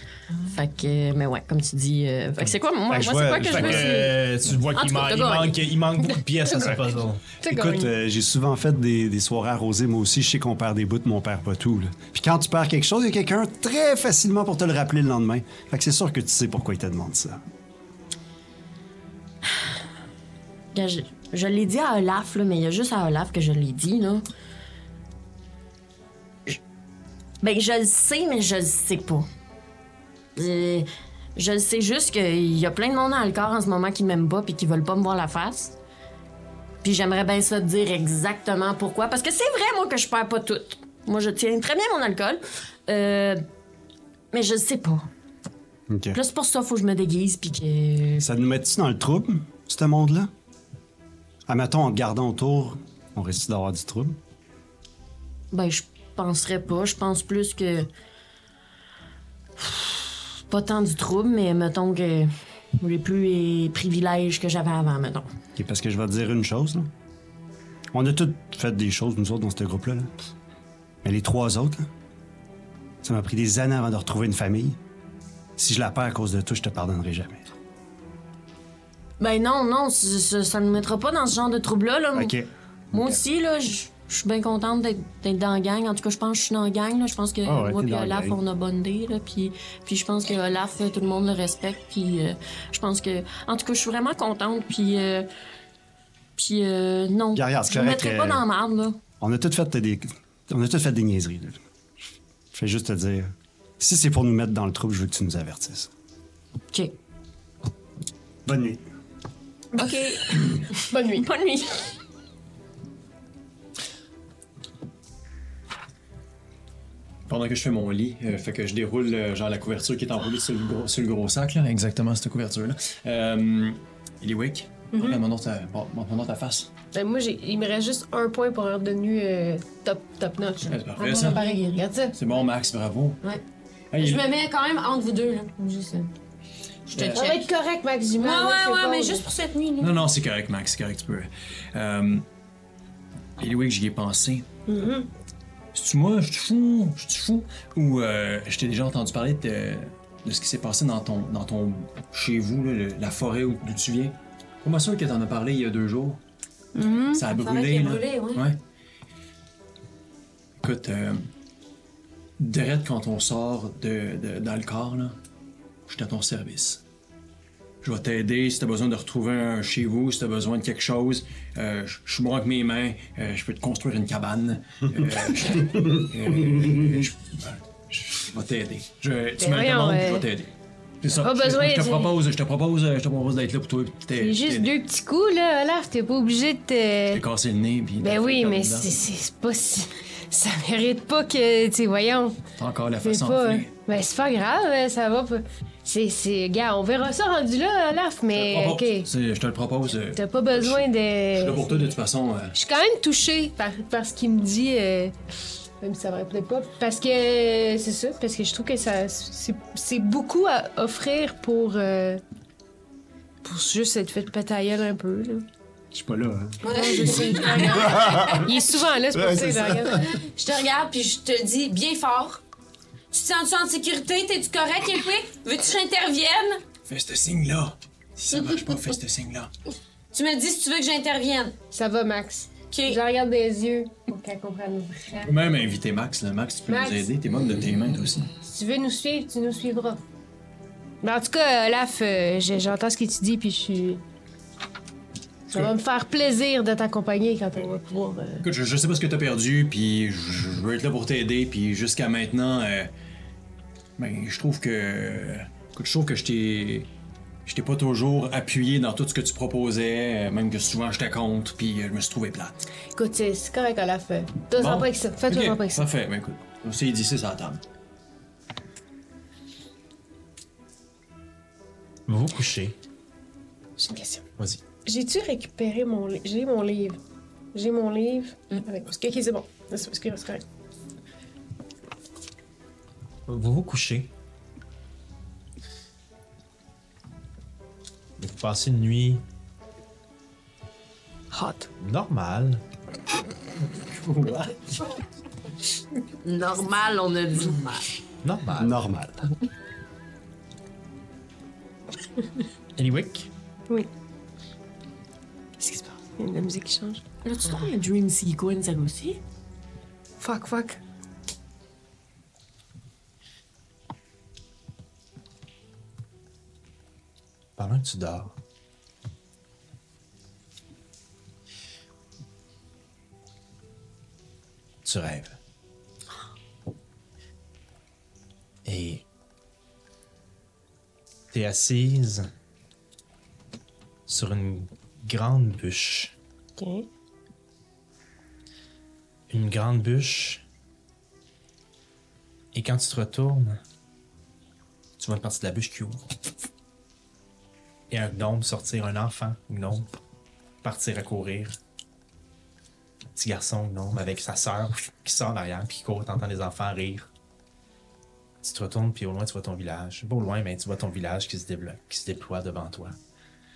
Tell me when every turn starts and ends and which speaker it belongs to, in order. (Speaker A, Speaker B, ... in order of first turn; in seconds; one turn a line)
Speaker A: 0.5-5.6
Speaker B: 2.9-4.0
Speaker C: 3.4-7.2
Speaker D: 7.4-7.9
Speaker B: 7.4-17.4
Speaker A: 20.7-24.2
Speaker A: 27.4-29.3
Speaker A: 30.4-35.8
Speaker A: 36.8-43.5
Speaker A: 44.3-45.1
Speaker B: 45.9-46.2
Speaker A: 46.1-48.3
Speaker B: 48.2-50.3
Speaker B: 51.5-54.2
Speaker A: 55.5-57.9
Speaker A: 59.6-65.3
Speaker B: 65.6-66.9
Speaker B: 67.9-70.3
Speaker B: 71.0-71.9
Speaker B: 73.0-74.8
Speaker B: 75.6-77.5
Speaker A: 79.2-82.3
Speaker B: 82.2-83.2
Speaker A: 82.9-95.3
Speaker B: 87.5-88.4
Speaker A: 96.4-99.0
Speaker B: 97.3-98.4
Speaker B: 99.2-101.6
Speaker B: 102.5-105.9
Speaker B: 108.5-108.8
Speaker D: 109.8-111.3
Speaker A: 109.8-111.9
Speaker E: 117.3-126.7
Speaker D: 124.9-125.2
Speaker D: 126.9-132.2
Speaker E: 130.7-133.2
Speaker E: 133.9-134.3
Speaker F: 134.0-136.1
Speaker E: 136.9-137.3
Speaker F: 137.0-137.4
Speaker D: 137.1-139.3
Speaker F: 138.2-140.0
Speaker E: 139.8-142.2
Speaker E: 143.4-144.4
Speaker D: 144.7-145.1
Speaker E: 145.7-156.2
Speaker D: 156.8-157.2
Speaker E: 157.1-158.6
Speaker F: 157.3-158.5
Speaker E: 160.6-161.3
Speaker E: 162.4-165.2
Speaker E: 165.9-166.8
Speaker E: 167.8-180.5
Speaker D: 179.4-180.3
Speaker E: 181.0-184.7
Speaker D: 181.2-182.2
Speaker D: 184.2-187.2
Speaker E: 187.1-188.9
Speaker D: 188.0-192.4
Speaker E: 192.6-193.8
Speaker D: 193.0-199.1
Speaker E: 198.3-202.6
Speaker D: 200.1-202.0
Speaker D: 202.6-205.2
Speaker D: 205.8-212.2
Speaker D: 213.4-215.4
Speaker B: 215.9-216.7
Speaker F: 216.6-218.5
Speaker D: 216.7-220.1
Speaker B: 217.7-218.5
Speaker B: 219.1-220.0
Speaker F: 220.0-222.4
Speaker F: 223.1-226.6
Speaker E: 226.8-229.5
Speaker F: 230.1-231.6
Speaker D: 231.7-235.3
Speaker E: 235.2-238.3
Speaker D: 236.7-237.1
Speaker D: 238.4-240.0
Speaker D: 241.0-244.0
Speaker D: 245.5-248.5
Speaker E: 248.4-252.9
Speaker E: 254.0-256.9
Speaker E: 257.5-262.6
Speaker D: 262.9-265.9
Speaker E: 264.5-267.6
Speaker C: 272.1-272.8
Speaker D: 273.8-274.2
Speaker D: 274.9-277.0
Speaker D: 277.5-280.4
Speaker C: 283.3-284.1
Speaker C: 288.2-289.2
Speaker D: 291.3-291.7
Speaker C: 291.8-292.6
Speaker E: 293.8-294.9
Speaker A: 296.2-297.9
Speaker C: 298.2-298.9
Speaker B: 298.6-299.3
Speaker C: 302.8-303.3
Speaker D: 305.6-307.0
Speaker A: 307.2-309.2
Speaker D: 310.2-310.8
Speaker C: 317.6-318.3
Speaker C: 324.9-325.4
Speaker C: 328.6-329.0
Speaker C: 331.3-332.3
Speaker C: 334.1-336.1
Speaker D: 336.6-336.9
Speaker C: 339.3-340.4
Speaker C: 342.5-343.6
Speaker C: 345.0-346.0
Speaker C: 347.9-349.9
Speaker C: 350.6-351.6
Speaker C: 353.1-357.1
Speaker C: 358.4-363.0